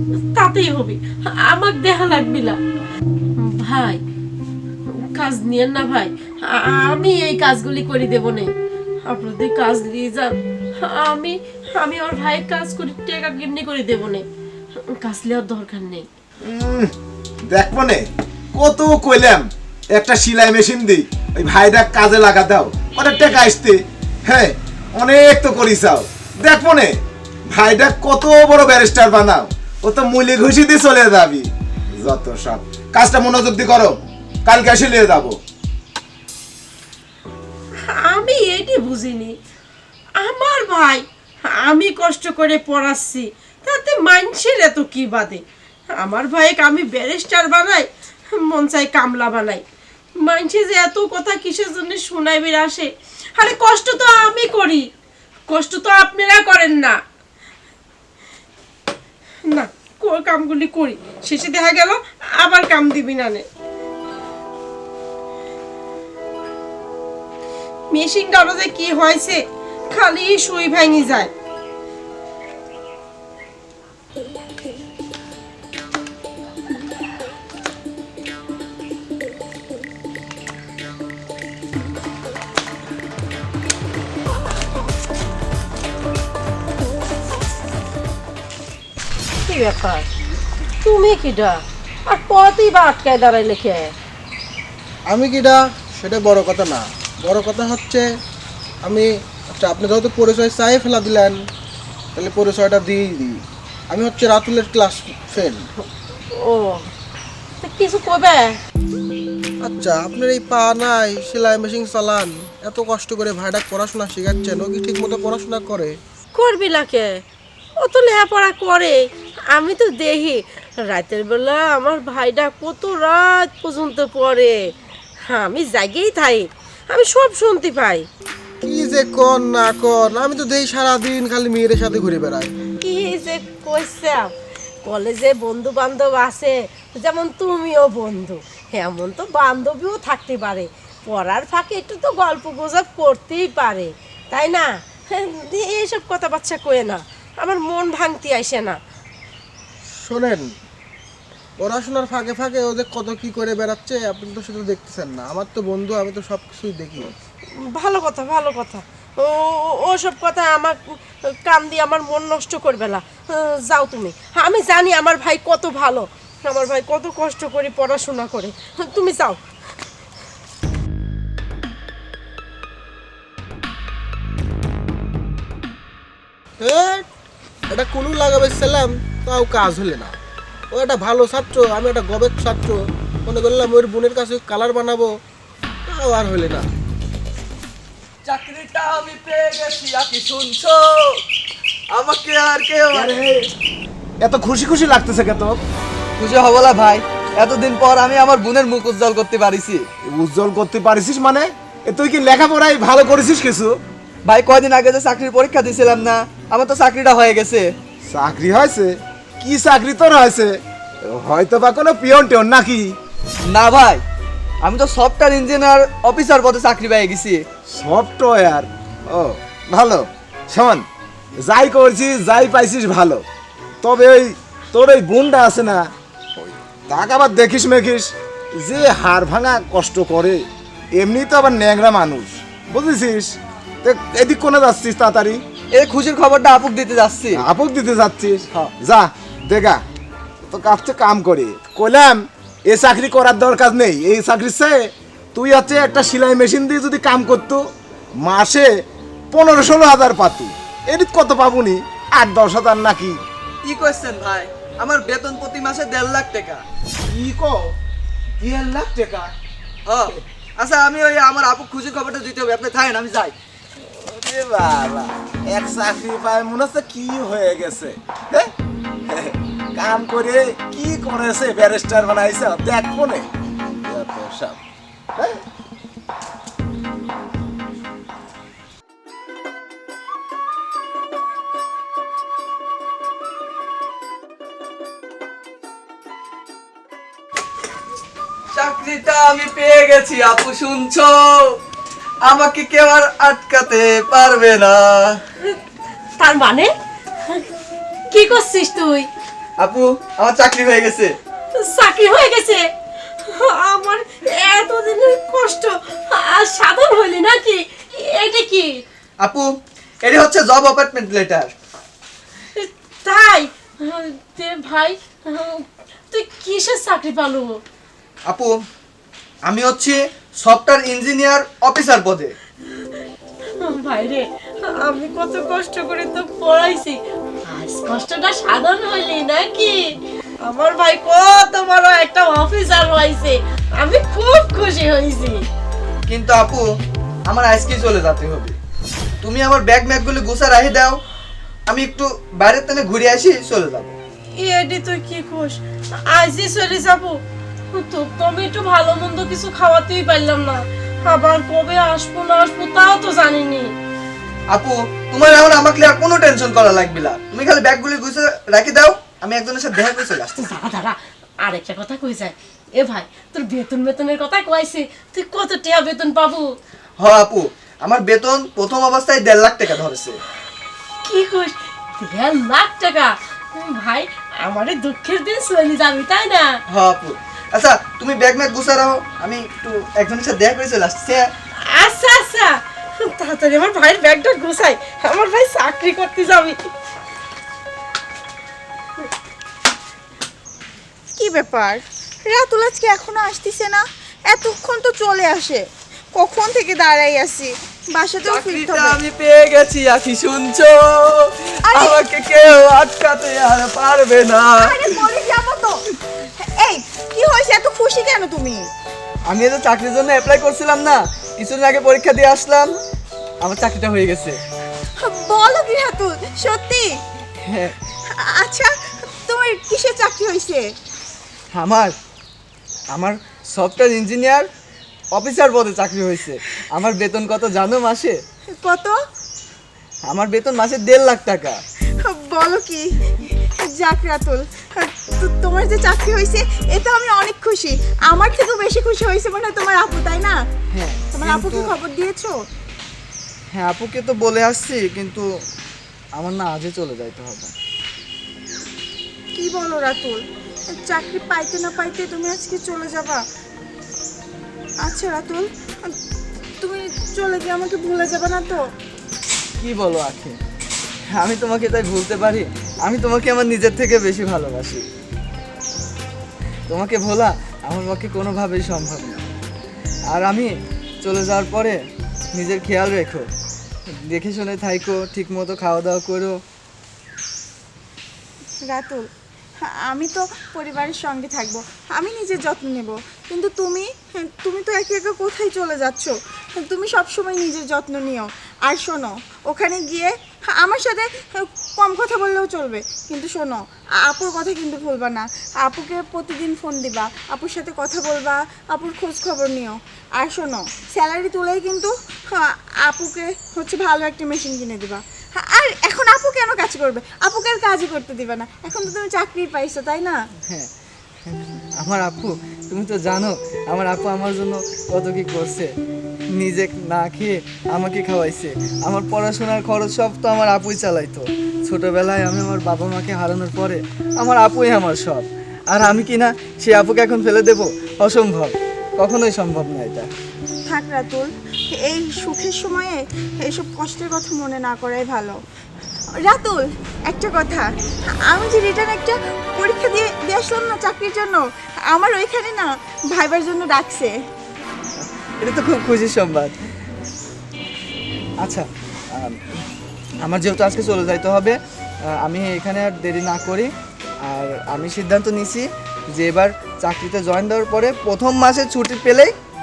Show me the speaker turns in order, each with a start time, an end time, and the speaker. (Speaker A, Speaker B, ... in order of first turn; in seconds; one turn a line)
Speaker A: 0.3-2.6
Speaker A: 3.4-4.0
Speaker A: 5.0-8.5
Speaker A: 9.1-14.2
Speaker A: 14.9-16.1
Speaker B: 16.4-16.9
Speaker B: 17.5-18.0
Speaker B: 18.6-27.0
Speaker B: 27.5-35.4
Speaker A: 37.9-39.4
Speaker A: 40.2-45.4
Speaker A: 46.0-49.6
Speaker A: 50.2-54.9
Speaker A: 55.5-57.0
Speaker A: 59.5-63.5
Speaker A: 67.9-71.3
Speaker A: 89.5-90.1
Speaker A: 90.8-93.9
Speaker C: 95.1-98.1
Speaker C: 98.8-101.4
Speaker C: 102.2-105.7
Speaker A: 106.3-106.9
Speaker A: 107.6-108.6
Speaker C: 109.6-116.0
Speaker A: 116.4-117.2
Speaker A: 117.8-119.0
Speaker A: 119.5-124.6
Speaker A: 125.3-128.1
Speaker C: 128.6-132.5
Speaker A: 132.8-134.3
Speaker A: 134.8-148.8
Speaker C: 150.0-150.5
Speaker C: 151.6-157.1
Speaker A: 157.6-169.4
Speaker C: 176.6-177.1
Speaker C: 177.7-180.2
Speaker C: 180.7-185.1
Speaker C: 185.9-186.7
Speaker D: 188.3-191.2
Speaker D: 191.9-193.2
Speaker B: 192.9-193.4
Speaker B: 194.2-195.6
Speaker D: 196.2-199.8
Speaker B: 200.1-203.8
Speaker D: 204.3-207.7
Speaker B: 208.1-212.9
Speaker D: 213.5-214.0
Speaker D: 214.7-217.4
Speaker B: 217.7-220.9
Speaker B: 221.4-223.2
Speaker B: 223.8-230.4
Speaker B: 230.9-235.4
Speaker D: 235.7-237.4
Speaker B: 237.4-239.8
Speaker B: 240.5-247.6
Speaker B: 248.2-248.7
Speaker B: 249.3-253.2
Speaker D: 253.7-256.6
Speaker B: 257.1-257.8
Speaker B: 258.4-259.3
Speaker D: 259.9-263.4
Speaker B: 263.8-268.5
Speaker B: 269.1-273.3
Speaker B: 273.8-274.6
Speaker B: 275.2-275.4
Speaker D: 288.5-291.6
Speaker D: 292.2-295.2
Speaker A: 296.2-296.7
Speaker A: 298.1-299.1
Speaker D: 299.6-301.2
Speaker A: 301.6-302.7
Speaker A: 303.2-308.8
Speaker D: 309.2-309.5
Speaker D: 310.0-311.5
Speaker A: 312.6-317.6
Speaker D: 318.3-318.6
Speaker D: 319.5-322.3
Speaker A: 323.6-329.9
Speaker A: 330.4-335.4
Speaker D: 336.1-336.7
Speaker D: 337.3-338.6
Speaker D: 339.2-341.0
Speaker D: 341.7-343.9
Speaker A: 344.4-347.2
Speaker A: 347.7-353.7
Speaker D: 354.5-360.5
Speaker A: 360.4-366.5
Speaker D: 367.0-370.2
Speaker A: 371.0-376.6
Speaker D: 376.7-381.3
Speaker A: 381.7-386.6
Speaker E: 391.2-399.0
Speaker D: 398.2-405.0
Speaker E: 401.7-402.0
Speaker E: 404.6-405.8
Speaker E: 406.4-408.7
Speaker D: 409.3-412.8
Speaker D: 413.4-414.4
Speaker E: 415.0-417.0
Speaker D: 417.4-417.8
Speaker E: 418.1-420.7
Speaker D: 421.5-421.9
Speaker D: 422.9-424.5
Speaker D: 425.1-428.2
Speaker E: 428.5-429.0
Speaker D: 430.1-431.6
Speaker E: 432.0-440.4
Speaker D: 440.7-441.7
Speaker E: 441.1-442.4
Speaker D: 443.5-445.3
Speaker D: 446.2-447.5
Speaker E: 449.4-453.2
Speaker E: 454.8-456.0
Speaker E: 456.6-458.6
Speaker D: 459.6-460.4
Speaker D: 461.1-464.9
Speaker D: 466.7-469.2
Speaker D: 470.1-471.8
Speaker D: 472.3-473.3
Speaker D: 474.0-476.4
Speaker E: 478.6-479.1
Speaker E: 479.6-510.2
Speaker D: 511.2-515.7
Speaker D: 516.4-530.1
Speaker E: 530.7-535.4
Speaker E: 536.2-544.2
Speaker D: 545.0-546.5
Speaker D: 548.4-549.6
Speaker D: 550.2-553.7
Speaker D: 554.3-559.3